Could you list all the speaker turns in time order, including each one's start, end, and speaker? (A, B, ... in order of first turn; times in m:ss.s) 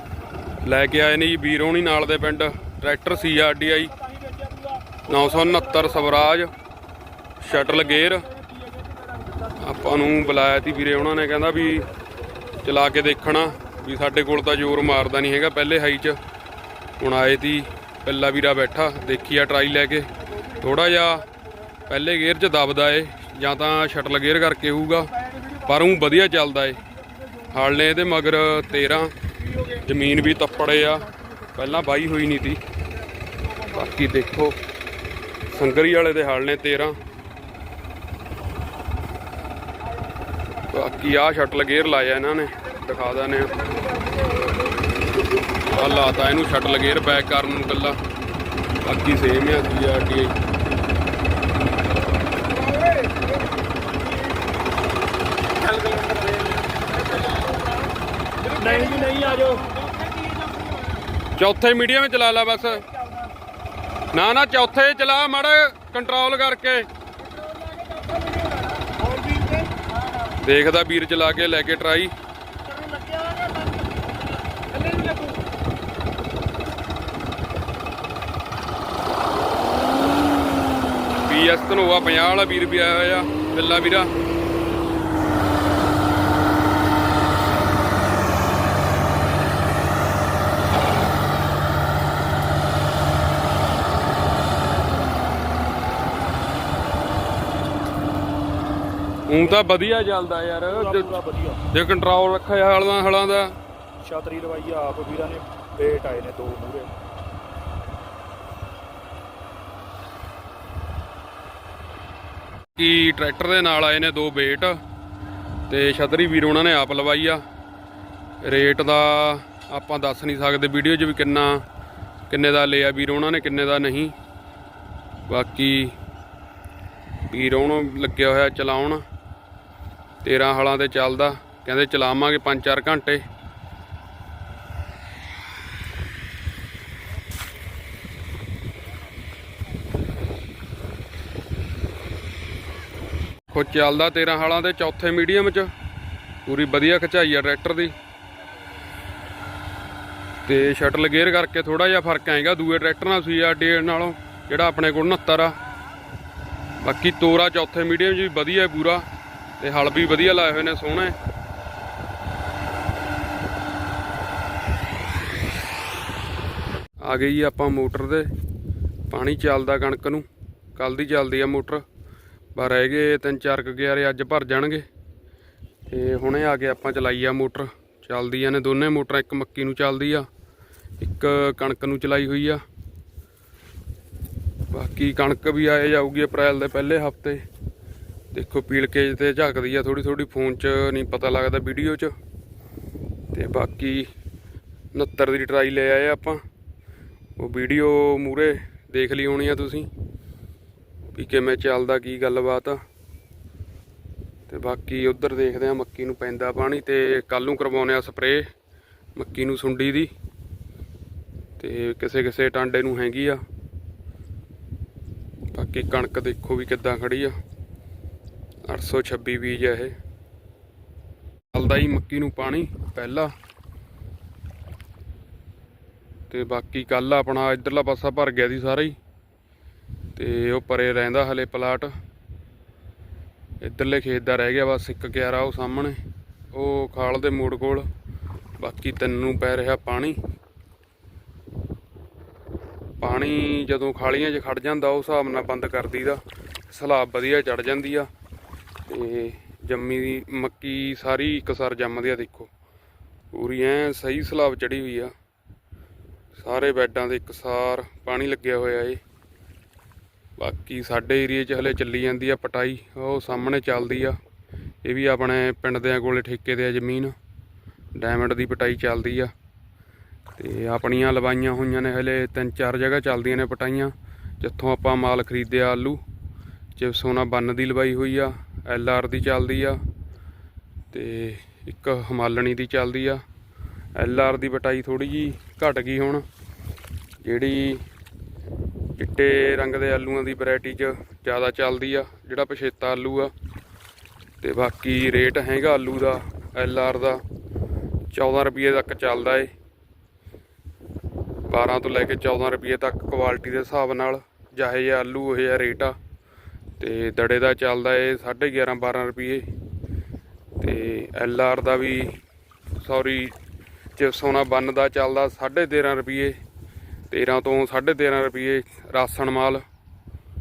0:00.6-0:03.9 A
0:04.3-0:05.0 B
0:05.0-0:06.5 A
0:07.4-0:08.3 A
0:08.3-0:09.4 B
0:09.6-0:11.9 A
0:12.6-0:16.2 A
0:17.0-0:21.2 A
0:21.8-0:26.8 A
0:27.4-0:29.1 A
0:29.6-0:32.6 A
0:33.6-0:34.6 A
0:35.5-0:37.0 A
0:40.6-0:43.7 A
0:45.7-0:48.0 A
0:48.8-0:50.3 A
0:55.6-0:57.8 B
0:58.4-1:01.0 B
1:01.3-1:02.9 A
1:03.0-1:03.3 B
1:04.1-1:06.9 A
1:07.3-1:10.0 B
1:10.3-1:12.1 A
1:12.7-1:13.9 B
1:14.6-1:15.3 B
1:21.2-1:24.1 A
1:39.3-1:41.1 A
1:40.7-1:41.6 B
1:41.7-1:43.5 A
1:44.0-1:46.9 B
1:52.8-1:54.8 A
1:55.7-1:57.4 A
1:58.4-2:01.6 A
2:02.3-2:04.1 A
2:05.3-2:06.0 A
2:07.3-2:09.0 A
2:10.2-2:13.2 A
2:23.5-2:25.7 A
2:26.4-2:27.9 A
2:30.4-2:35.6 A
2:36.8-2:39.0 A
2:39.6-2:41.1 A
2:47.0-2:48.3 A
2:49.1-2:51.8 A
2:52.5-2:54.8 A
2:55.9-3:00.3 A
3:01.0-3:02.6 A
3:04.7-3:07.4 A
3:08.3-3:12.1 A
3:13.3-3:14.1 A
3:14.9-3:16.4 A
3:17.4-3:19.9 A
3:21.1-3:22.8 A
3:24.5-3:28.4 A
3:29.2-3:30.1 A
3:31.6-3:33.4 A
3:35.5-3:37.3 A
3:38.6-3:39.9 A
3:41.5-3:43.3 A
3:46.3-3:49.0 A
3:50.2-3:51.9 A
3:53.6-3:56.0 A
3:56.5-3:57.9 A
3:58.6-4:00.2 A
4:03.0-4:08.1 A
4:08.9-4:12.5 A
4:13.3-4:15.1 A
4:16.4-4:19.0 A
4:20.4-4:24.2 A
4:24.8-4:27.1 A
4:27.9-4:29.3 A
4:30.4-4:36.0 A
4:36.8-4:39.8 A
4:40.9-4:43.2 A
4:44.0-4:46.2 A
4:47.2-4:47.8 A
4:49.0-4:53.3 A
4:54.4-4:57.2 A
4:58.1-4:59.5 A
5:01.5-5:06.0 A
5:06.8-5:09.4 A
5:10.6-5:12.1 A
5:12.8-5:13.3 A
5:14.0-5:16.3 A
5:17.1-5:19.6 A